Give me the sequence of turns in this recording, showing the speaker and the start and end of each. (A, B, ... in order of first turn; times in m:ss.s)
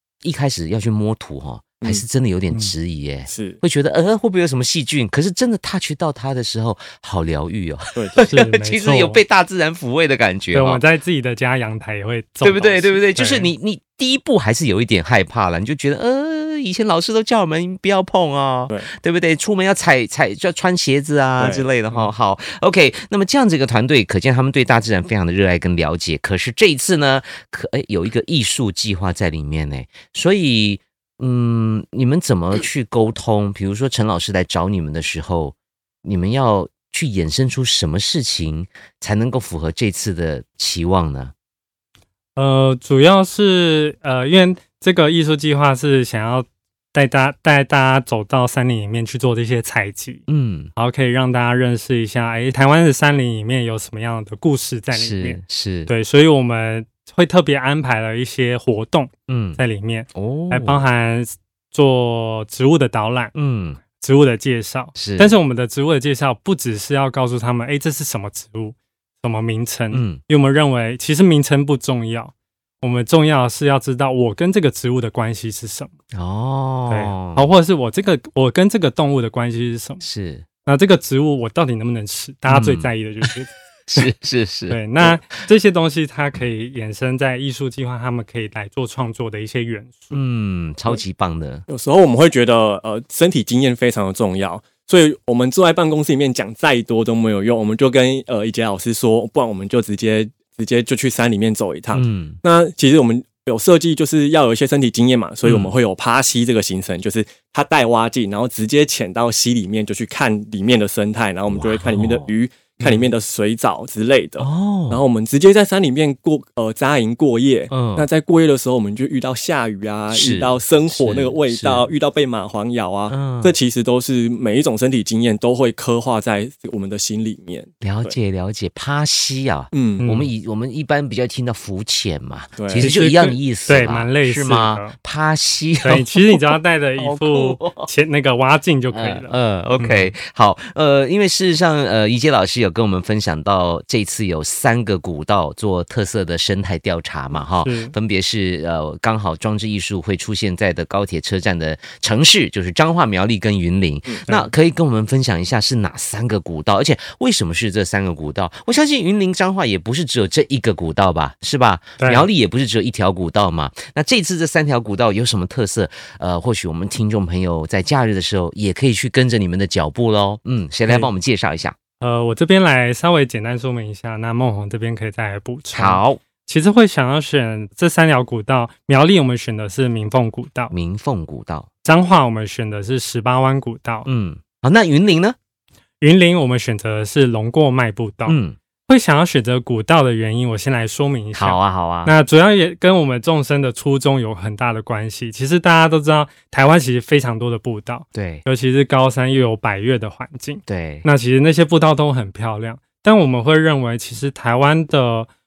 0:00.2-0:10.8 A
0:03.3-0:03.6 B
0:07.9-0:08.2 B
0:08.2-0:09.2 C
0:10.5-0:13.5 C
0:12.4-0:41.3 A
0:21.4-0:21.7 B
0:42.4-0:50.2 C
0:50.3-0:50.7 A
0:50.8-1:03.3 C
0:54.9-0:55.9 A
0:59.3-0:59.6 A
1:00.1-1:00.8 A
1:03.3-1:03.8 A
1:04.0-1:15.9 C
1:05.0-1:05.4 A
1:09.9-1:10.2 A
1:16.1-1:17.4 A
1:16.9-1:20.0 C
1:20.0-1:20.4 A
1:20.6-1:23.5 C
1:22.5-1:22.9 A
1:23.9-1:25.2 A
1:24.7-1:30.2 C
1:30.1-1:31.6 A
1:31.7-2:08.2 B
1:41.9-1:42.4 A
1:45.4-1:45.7 A
1:51.5-1:53.1 A
1:54.4-1:55.0 A
1:57.7-1:58.1 A
2:00.1-2:01.9 A
2:03.1-2:03.6 A
2:07.8-2:16.5 A
2:09.7-2:10.0 B
2:10.0-2:10.3 C
2:12.6-2:12.9 B
2:12.7-2:14.9 C
2:15.8-2:20.1 C
2:17.0-2:17.9 A
2:18.9-2:51.7 A
2:27.6-2:27.9 C
2:34.1-2:34.4 B
2:42.0-2:42.3 C
2:52.0-3:00.7 C
2:55.7-2:56.2 A
3:00.7-3:01.7 A
3:01.8-3:04.1 C
3:04.0-3:05.4 A
3:06.0-3:08.4 C
3:08.2-3:08.6 A
3:08.9-3:25.3 C
3:11.3-3:12.1 A
3:18.1-3:18.4 A
3:20.7-3:21.0 A